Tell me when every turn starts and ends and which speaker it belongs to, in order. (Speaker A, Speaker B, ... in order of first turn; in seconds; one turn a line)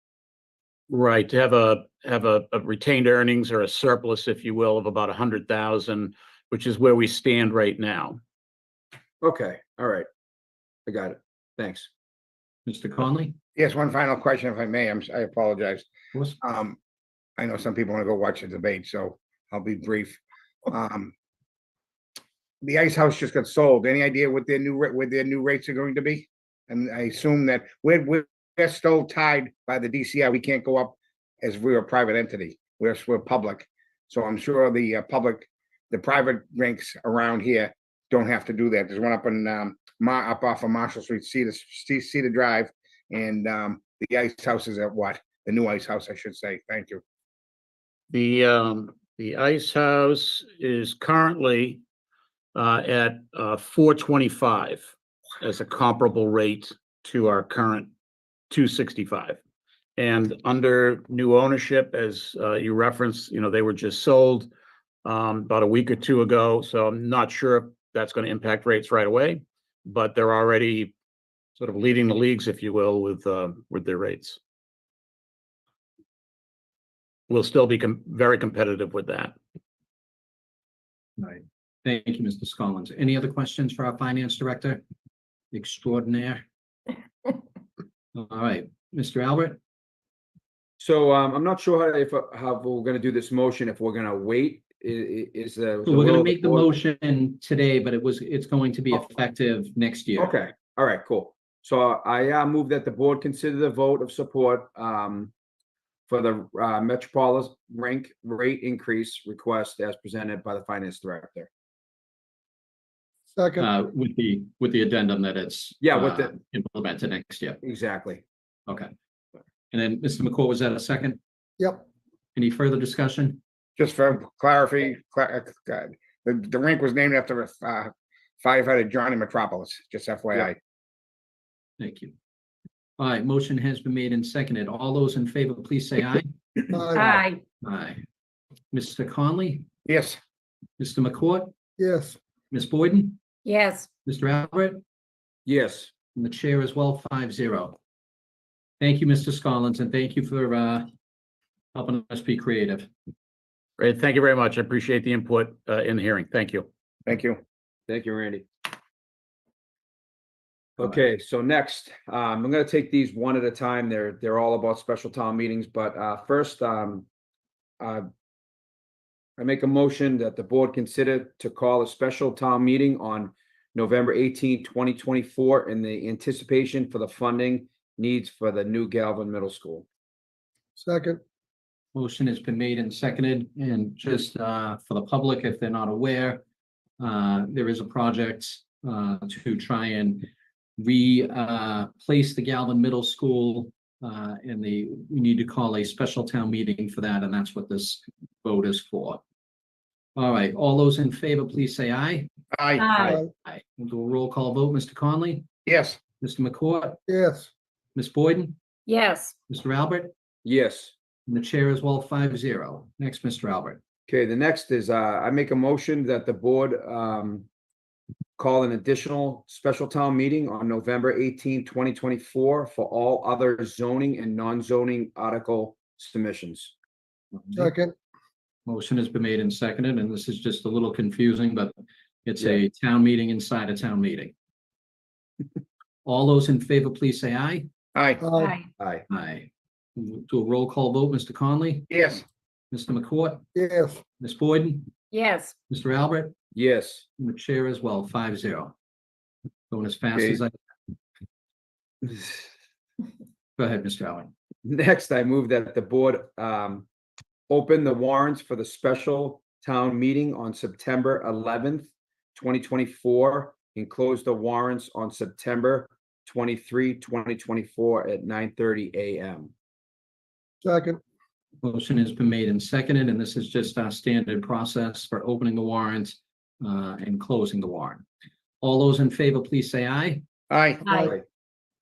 Speaker A: 0.9-8.2
Speaker B: 9.2-10.1
Speaker B: 10.8-11.9
Speaker C: 12.7-13.3
Speaker D: 13.6-15.9
Speaker D: 16.4-16.8
Speaker D: 17.4-21.1
Speaker D: 22.6-47.0
Speaker A: 48.1-51.8
Speaker A: 52.5-54.9
Speaker A: 55.4-57.9
Speaker A: 58.5-59.4
Speaker A: 60.0-64.5
Speaker A: 65.0-70.9
Speaker A: 71.6-74.4
Speaker A: 77.3-79.3
Speaker C: 81.2-84.8
Speaker C: 85.5-86.4
Speaker C: 88.1-89.6
Speaker B: 90.8-96.7
Speaker C: 95.8-100.3
Speaker B: 100.2-105.3
Speaker B: 106.1-111.5
Speaker E: 113.3-113.6
Speaker C: 113.6-117.6
Speaker B: 115.8-116.3
Speaker B: 117.6-118.2
Speaker C: 119.7-121.2
Speaker C: 122.3-123.4
Speaker D: 123.8-130.6
Speaker C: 131.8-132.1
Speaker C: 133.0-136.3
Speaker E: 136.7-137.1
Speaker F: 136.9-137.4
Speaker C: 137.6-138.0
Speaker C: 138.7-139.6
Speaker D: 139.8-140.2
Speaker C: 140.8-141.5
Speaker E: 141.8-142.2
Speaker C: 142.5-143.2
Speaker F: 143.4-143.9
Speaker C: 144.0-144.8
Speaker B: 145.4-145.9
Speaker C: 146.1-147.8
Speaker C: 148.8-150.9
Speaker C: 151.7-152.9
Speaker A: 153.8-156.7
Speaker D: 157.1-157.4
Speaker B: 157.9-158.4
Speaker B: 160.8-167.1
Speaker B: 167.8-168.1
Speaker B: 169.4-179.8
Speaker E: 180.8-181.2
Speaker C: 181.9-186.4
Speaker C: 187.0-199.2
Speaker C: 200.2-202.3
Speaker D: 202.5-202.9
Speaker F: 202.8-203.2
Speaker C: 203.0-205.5
Speaker D: 205.7-206.0
Speaker C: 206.2-207.0
Speaker E: 207.1-207.5
Speaker C: 207.9-208.6
Speaker F: 208.9-209.3
Speaker C: 209.5-210.1
Speaker B: 210.4-210.9
Speaker C: 211.3-213.8
Speaker B: 214.1-217.4
Speaker B: 218.4-226.7
Speaker C: 227.3-227.7
Speaker E: 227.6-227.9
Speaker C: 228.7-234.3
Speaker C: 236.0-237.7
Speaker D: 237.9-238.2
Speaker E: 238.2-238.5
Speaker F: 238.3-238.7
Speaker C: 239.1-241.9
Speaker D: 241.9-242.2
Speaker C: 242.7-243.4
Speaker E: 243.5-244.0
Speaker C: 244.1-244.9
Speaker F: 245.1-245.6
Speaker C: 245.7-246.3
Speaker B: 246.5-247.0
Speaker C: 247.2-248.7
Speaker C: 249.7-250.5
Speaker C: 253.6-254.3
Speaker B: 254.6-256.9
Speaker B: 257.5-269.5
Speaker E: 270.6-271.0
Speaker C: 271.6-278.0
Speaker C: 278.6-280.2
Speaker D: 280.5-280.8
Speaker F: 280.8-281.1